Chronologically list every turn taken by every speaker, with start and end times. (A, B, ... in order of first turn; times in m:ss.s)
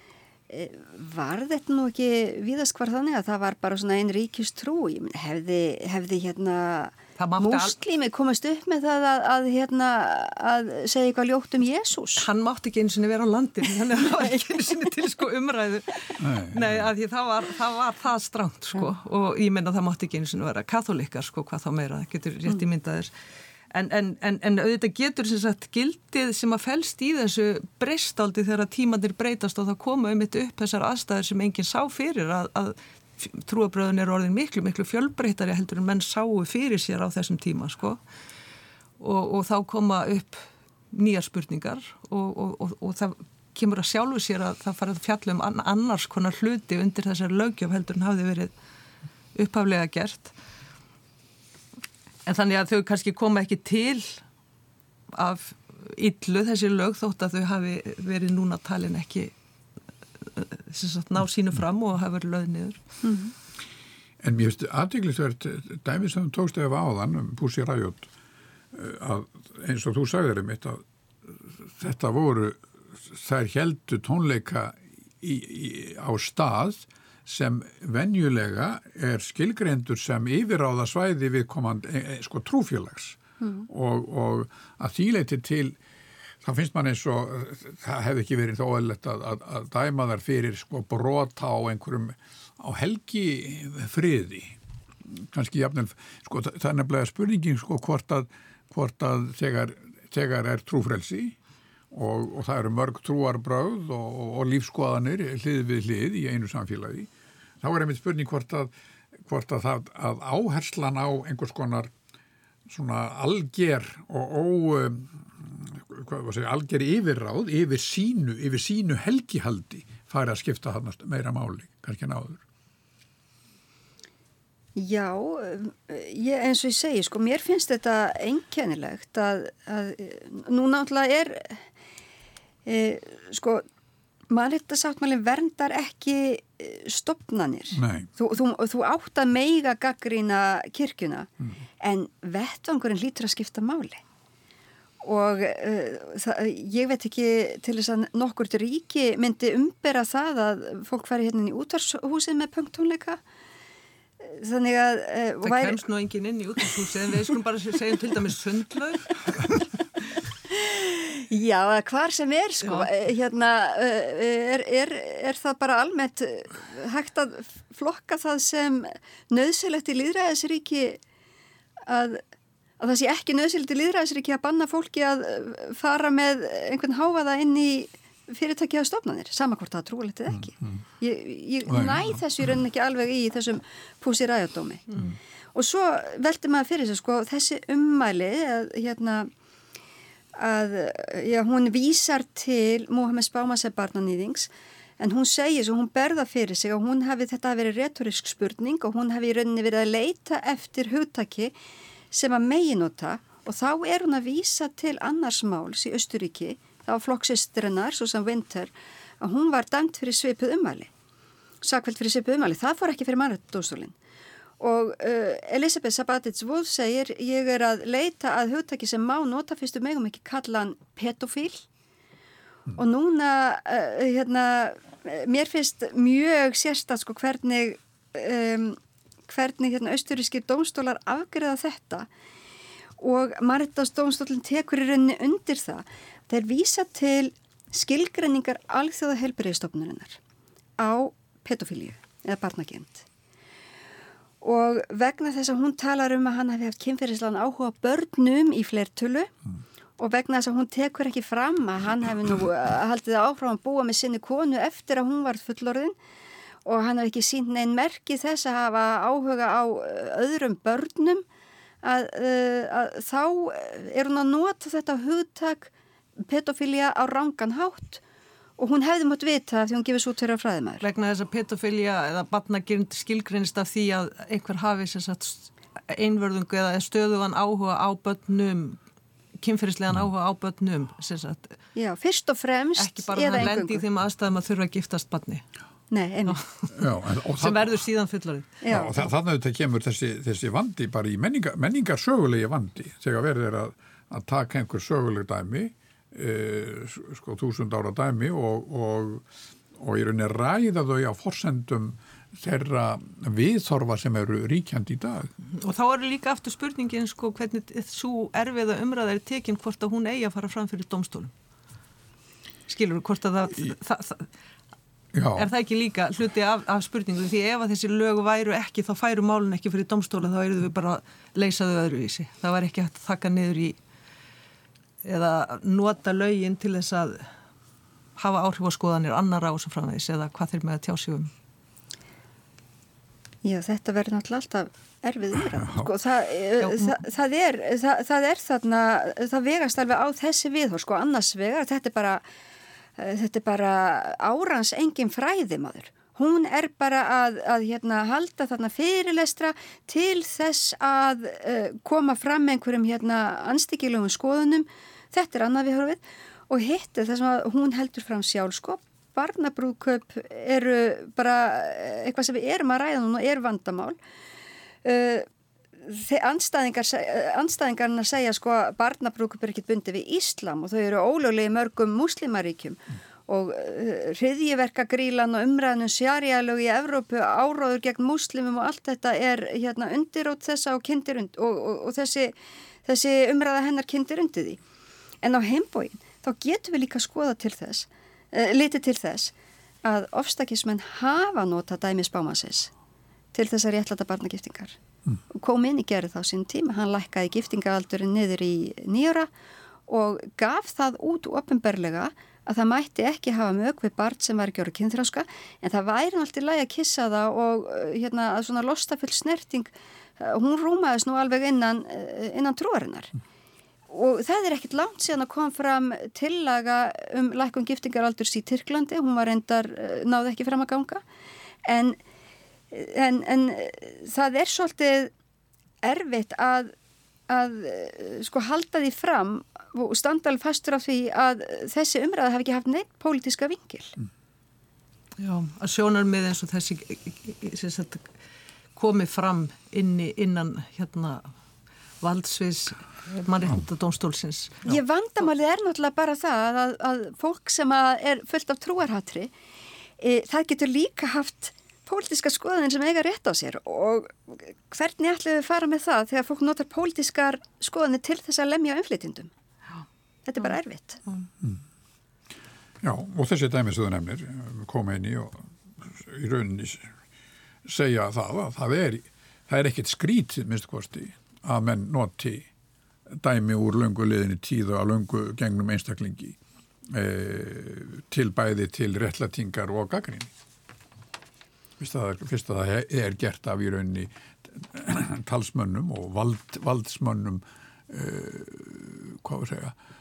0:00.5-0:12.2 A
0:07.2-0:07.7 B
0:12.2-0:23.1 B
0:16.2-0:16.9 C
0:23.7-0:38.0 B
0:39.0-0:48.5 B
0:49.3-0:50.3 B
0:52.2-0:54.2 B
0:55.1-0:59.3 B
1:00.2-1:02.8 B
1:03.0-1:03.3 A
1:04.2-1:08.1 C
1:08.7-1:25.8 C
1:23.4-1:23.7 A
1:26.4-1:41.4 C
1:41.9-1:47.1 C
1:47.6-1:48.7 C
1:49.2-1:51.9 C
1:52.7-2:02.4 C
2:04.8-2:11.6 A
2:12.6-2:13.6 A
2:14.3-2:21.3 A
2:17.7-2:18.1 C
2:21.8-2:24.0 A
2:25.0-2:33.2 A
2:34.2-2:35.8 A
2:35.4-2:39.7 B
2:40.5-2:51.0 A
2:51.9-2:52.2 A
2:52.8-3:04.9 A
3:00.3-3:00.8 C
3:01.7-3:02.1 C
3:05.5-3:09.3 A
3:10.3-3:21.5 A
3:22.1-3:30.9 A
3:31.6-3:33.9 A
3:34.6-3:41.6 A
3:42.8-3:52.1 A
3:53.0-4:00.2 A
4:00.8-4:03.0 A
4:04.4-4:09.3 A
4:10.0-4:15.9 A
4:16.6-4:21.2 A
4:21.8-4:28.0 A
4:28.6-4:30.8 A
4:30.8-4:38.8 B
4:39.4-4:41.6 B
4:41.8-4:43.8 A
4:42.8-4:45.4 B
4:45.9-4:46.4 A
4:46.3-4:46.7 B
4:46.7-4:47.8 C
4:47.2-4:48.7 B
4:48.6-4:49.0 A
4:48.7-4:59.2 C
4:59.8-5:05.3 C
5:05.5-5:11.3 B
5:12.7-5:14.3 B
5:15.1-5:15.5 C
5:15.4-5:23.8 B
5:25.0-5:27.3 B
5:28.2-5:31.3 B
5:33.4-5:42.2 A
5:35.6-5:35.9 C
5:36.6-5:37.0 B
5:43.0-6:04.0 A
6:04.8-6:05.3 A
6:05.8-6:24.6 A
6:25.2-6:29.3 A
6:29.8-6:32.7 A
6:33.3-6:34.8 A
6:35.3-6:39.3 A
6:39.9-6:53.1 A
6:53.9-7:01.0 A
7:01.6-7:02.0 A
7:02.7-7:05.1 A
7:05.8-7:06.7 A
7:07.3-7:14.0 A
7:15.2-7:18.1 B
7:18.8-7:21.2 B
7:22.0-7:24.7 B
7:24.6-7:29.3 A
7:30.0-7:39.3 A
7:40.3-7:41.0 A
7:42.8-7:46.9 C
7:47.6-7:52.5 C
7:53.1-7:56.4 C
7:56.9-8:00.3 C
8:01.8-8:09.8 C